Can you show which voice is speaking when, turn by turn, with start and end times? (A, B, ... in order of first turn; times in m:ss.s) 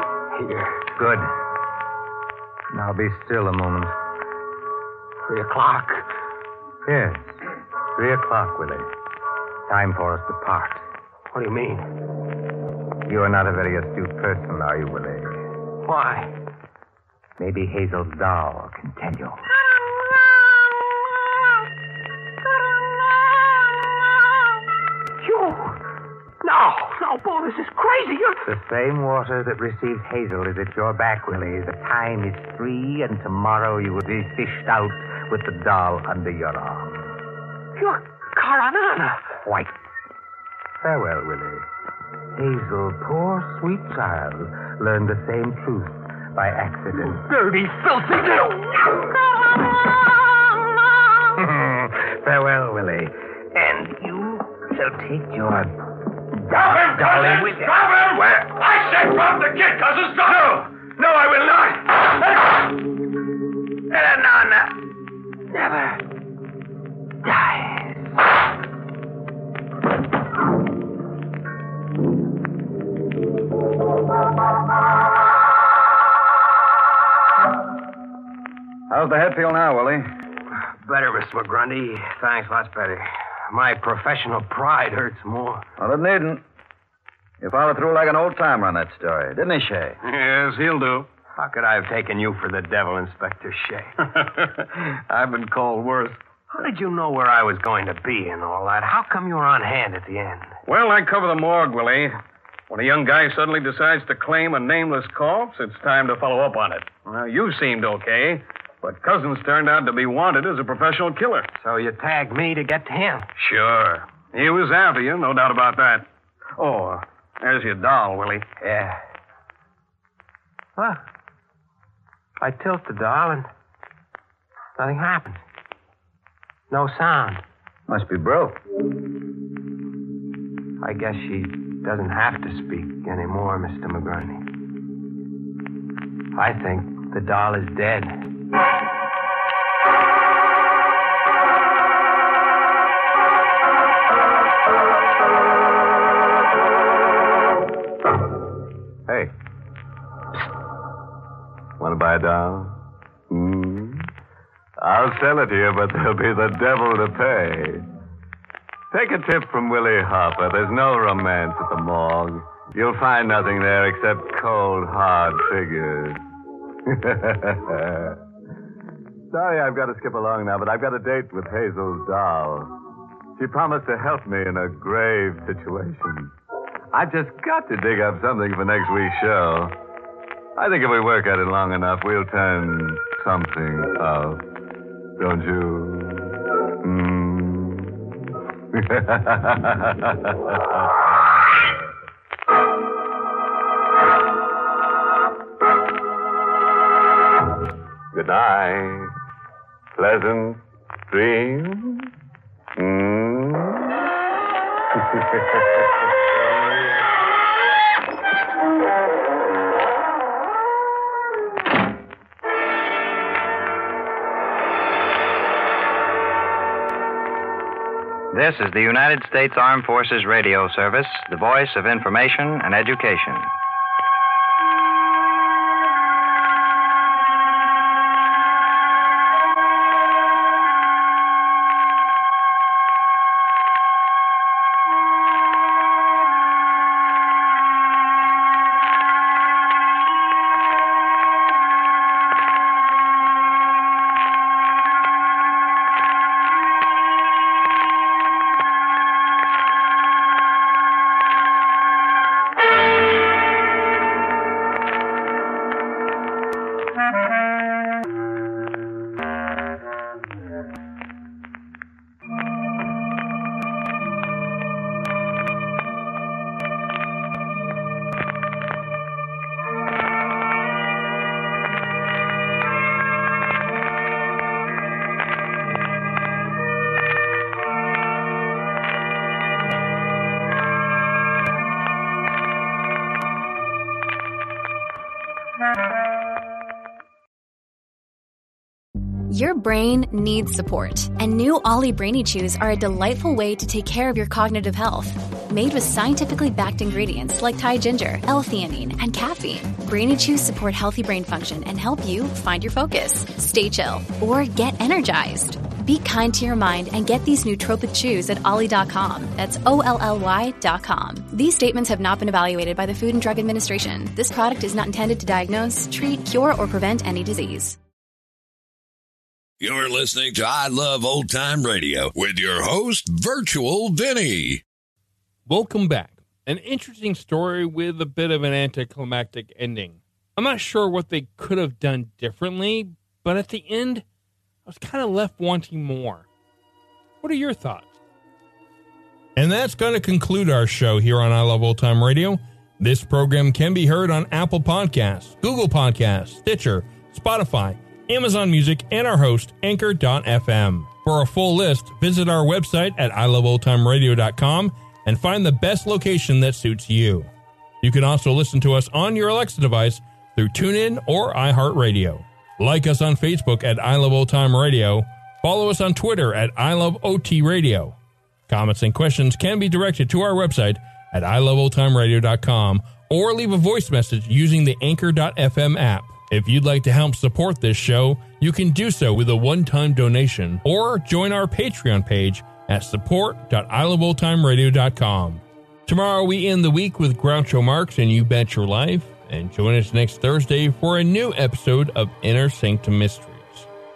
0:00.3-0:00.9 A
0:01.0-0:01.3 B
0:02.7-0:03.9 B
0:05.2-0:06.1 A
0:06.8-0:07.4 B
0:08.0-0:08.9 B
0:09.7-0:10.9 B
0:11.3-0:11.8 A
0:13.1-0:15.4 B
0:15.8-0:16.3 A
0:17.4-0:19.4 B
0:25.2-0:25.8 A
0:26.4-0:28.5 A
0:28.4-0:37.1 B
0:37.8-0:39.3 A
0:39.4-0:39.7 B
0:40.8-0:41.7 B
0:42.4-0:47.3 B
0:47.2-0:48.7 A
0:51.4-0:55.8 B
0:56.5-0:58.1 B
1:01.0-1:01.4 B
1:01.2-1:01.8 A
1:03.9-1:04.5 B
1:07.3-1:07.8 B
1:18.9-1:20.1 C
1:20.8-1:25.6 A
1:25.8-1:26.4 C
1:27.4-1:30.0 C
1:30.0-1:31.1 D
1:31.4-1:34.0 A
1:34.1-1:36.2 D
1:36.5-1:40.5 A
1:40.7-1:42.2 D
1:42.7-1:51.5 D
1:51.6-1:53.3 A
1:53.4-1:58.5 D
1:58.6-1:59.0 A
2:02.4-2:03.5 A
2:04.8-2:05.4 A
2:06.7-2:07.4 A
2:07.9-2:08.6 C
2:10.8-2:14.4 A
2:16.4-2:18.1 A
2:31.8-2:34.1 E
2:34.8-2:37.9 E
2:38.9-2:46.2 E
2:46.9-2:48.2 E
2:49.3-2:52.7 E
2:53.4-2:56.3 E
2:56.9-2:59.7 E
3:00.6-3:04.4 E
3:05.2-3:08.0 E
3:08.7-3:11.6 E
3:18.1-3:19.1 E
3:20.0-3:22.1 E
3:22.8-3:24.0 E
3:25.0-3:25.8 E
3:38.3-3:43.5 F
4:49.3-5:17.8 G
5:19.6-5:24.6 H
5:25.5-5:34.0 I
5:34.7-5:36.3 I
5:37.2-5:37.9 I
5:39.4-5:57.3 I
5:57.8-6:08.0 I
6:08.5-6:33.7 I